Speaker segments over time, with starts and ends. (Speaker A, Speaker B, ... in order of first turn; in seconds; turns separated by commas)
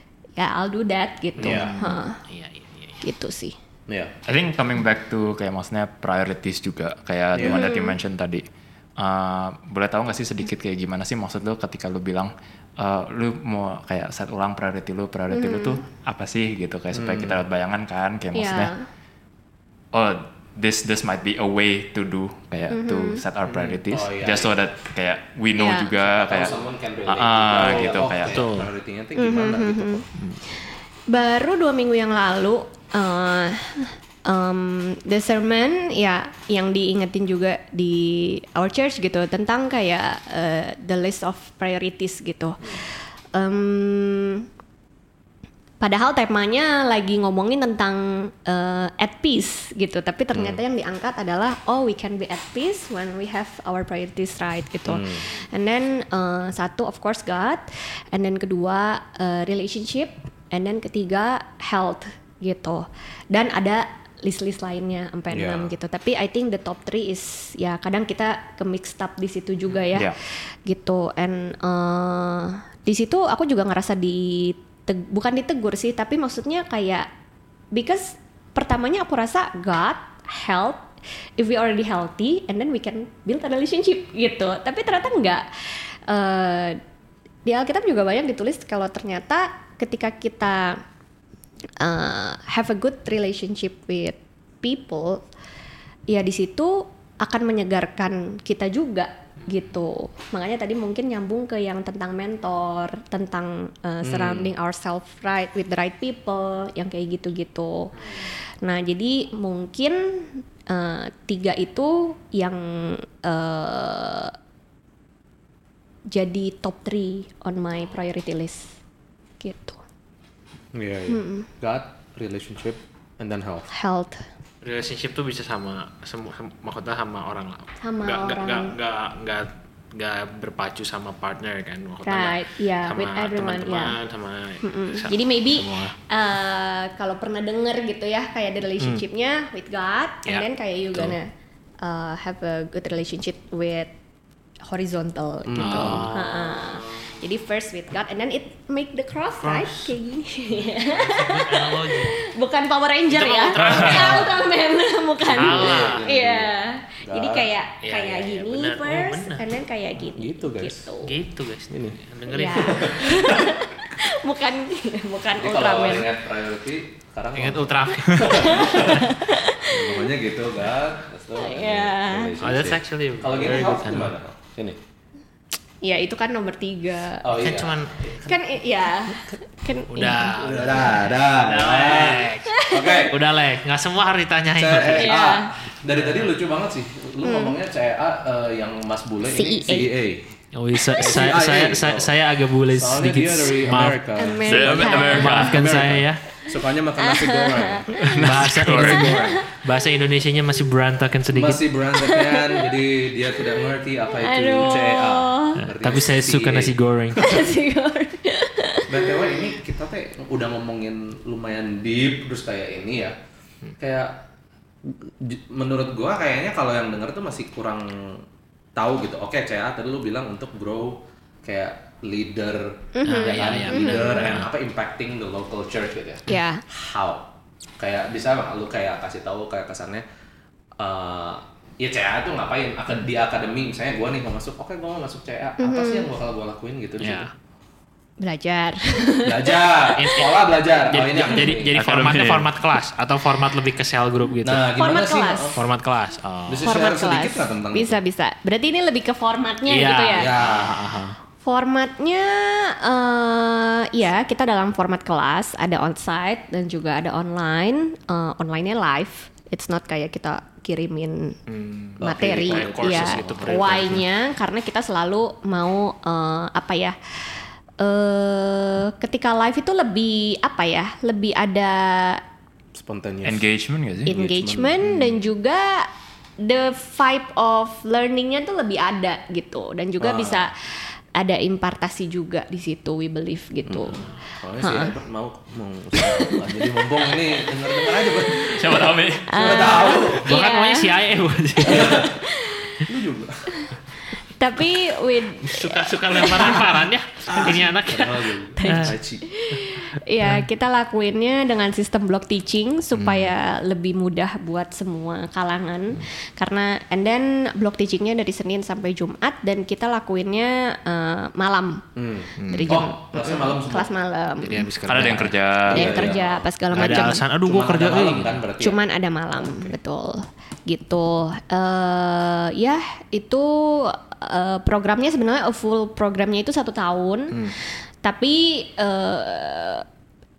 Speaker A: 0.4-2.2, Speaker B: 1.4-1.8, Speaker C: 1.4-3.0, Speaker A: 3.0-3.5, Speaker B: 3.9-4.2, Speaker D: 4.2-8.4, Speaker A: 7.4-8.0, Speaker D: 9.0-18.7, Speaker A: 15.3-15.8, Speaker B: 16.9-17.4, Speaker A: 18.3-18.9, Speaker D: 19.9-26.5, Speaker A: 22.7-23.2, Speaker B: 23.4-24.6, Speaker A: 25.6-25.9, Speaker B: 26.1-30.1, Speaker D: 27.1-28.5, Speaker C: 27.6-28.7, Speaker A: 29.1-30.1, Speaker A: 31.1-44.4, Speaker A: 45.8-77.1, Speaker B: 50.3-50.6, Speaker B: 54.9-55.3, Speaker B: 65.3-65.7, Speaker A: 77.7-80.8, Speaker A: 81.4-86.8, Speaker A: 87.5-90.8, Speaker A: 91.8-95.2, Speaker A: 96.1-107.9, Speaker B: 104.0-104.5, Speaker A: 108.6-114.3, Speaker A: 116.1-118.8, Speaker A: 119.4-119.8, Speaker B: 120.7-123.7, Speaker A: 121.1-121.5, Speaker A: 123.7-124.3, Speaker C: 124.6-135.9, Speaker A: 127.8-128.7, Speaker A: 132.0-134.0, Speaker A: 134.6-141.3, Speaker A: 141.8-143.9, Speaker A: 144.6-161.2, Speaker B: 145.4-146.1, Speaker C: 145.6-147.1, Speaker C: 149.4-149.9, Speaker C: 150.9-152.2, Speaker C: 153.1-154.3, Speaker B: 153.6-154.3, Speaker D: 153.6-153.9, Speaker C: 155.3-156.0, Speaker B: 155.3-157.5, Speaker C: 157.8-159.4, Speaker B: 160.2-160.9, Speaker C: 161.0-163.1, Speaker B: 161.7-163.6, Speaker A: 162.3-166.1, Speaker B: 165.4-169.1, Speaker C: 167.3-169.0, Speaker A: 168.2-170.1, Speaker B: 169.6-174.8, Speaker A: 171.4-172.3, Speaker C: 172.4-174.1, Speaker A: 175.8-177.3, Speaker B: 177.2-178.3, Speaker C: 177.4-178.2, Speaker A: 178.2-180.9, Speaker C: 179.9-185.1, Speaker B: 180.3-183.1, Speaker A: 182.5-183.1, Speaker B: 184.6-190.4, Speaker A: 184.9-185.5, Speaker C: 185.9-186.3, Speaker A: 187.2-187.6, Speaker A: 189.2-189.9, Speaker C: 190.5-194.0, Speaker B: 190.9-192.1, Speaker B: 192.7-199.4, Speaker A: 194.2-195.5, Speaker D: 194.4-195.6, Speaker C: 195.0-196.2, Speaker A: 197.0-198.1, Speaker D: 198.0-199.2, Speaker C: 198.2-201.6, Speaker A: 198.8-199.5, Speaker B: 201.3-207.4, Speaker A: 202.0-202.7, Speaker A: 204.1-205.6, Speaker C: 205.6-207.3, Speaker A: 207.2-209.4, Speaker B: 208.9-213.2, Speaker B: 213.8-214.2, Speaker B: 214.8-218.2, Speaker B: 218.8-230.0, Speaker A: 222.9-224.3, Speaker C: 223.1-224.5, Speaker A: 226.3-226.6, Speaker B: 230.8-237.3, Speaker A: 235.6-236.1, Speaker C: 237.0-237.3, Speaker A: 238.2-239.9, Speaker B: 239.2-241.9, Speaker C: 239.9-244.7, Speaker D: 241.7-242.5, Speaker B: 244.4-245.6, Speaker A: 244.8-245.5, Speaker C: 245.6-246.7, Speaker B: 246.5-248.0, Speaker A: 246.6-250.3, Speaker C: 249.7-251.1, Speaker B: 250.1-251.0, Speaker A: 251.4-261.4, Speaker C: 261.5-264.0, Speaker B: 262.0-264.0, Speaker A: 262.0-272.2, Speaker B: 272.8-273.4, Speaker D: 273.2-274.2, Speaker B: 274.1-274.8, Speaker A: 274.1-275.9, Speaker A: 276.4-284.1, Speaker B: 280.0-280.5, Speaker B: 283.7-290.3, Speaker A: 284.6-284.9, Speaker A: 286.0-286.4, Speaker A: 287.4-288.6, Speaker D: 288.6-289.6, Speaker A: 289.3-290.9, Speaker C: 290.2-292.0, Speaker A: 291.6-292.8, Speaker B: 291.6-292.1, Speaker B: 292.8-293.6, Speaker A: 294.4-296.6, Speaker C: 295.4-298.9, Speaker B: 297.3-299.2, Speaker A: 298.6-311.9, Speaker D: 303.0-303.3, Speaker B: 311.9-313.9, Speaker C: 312.4-312.9, Speaker A: 312.5-314.7, Speaker C: 314.4-315.4, Speaker D: 314.8-316.1, Speaker B: 315.6-318.8, Speaker A: 315.7-317.2, Speaker C: 316.7-318.4, Speaker A: 318.6-329.8, Speaker B: 319.3-319.7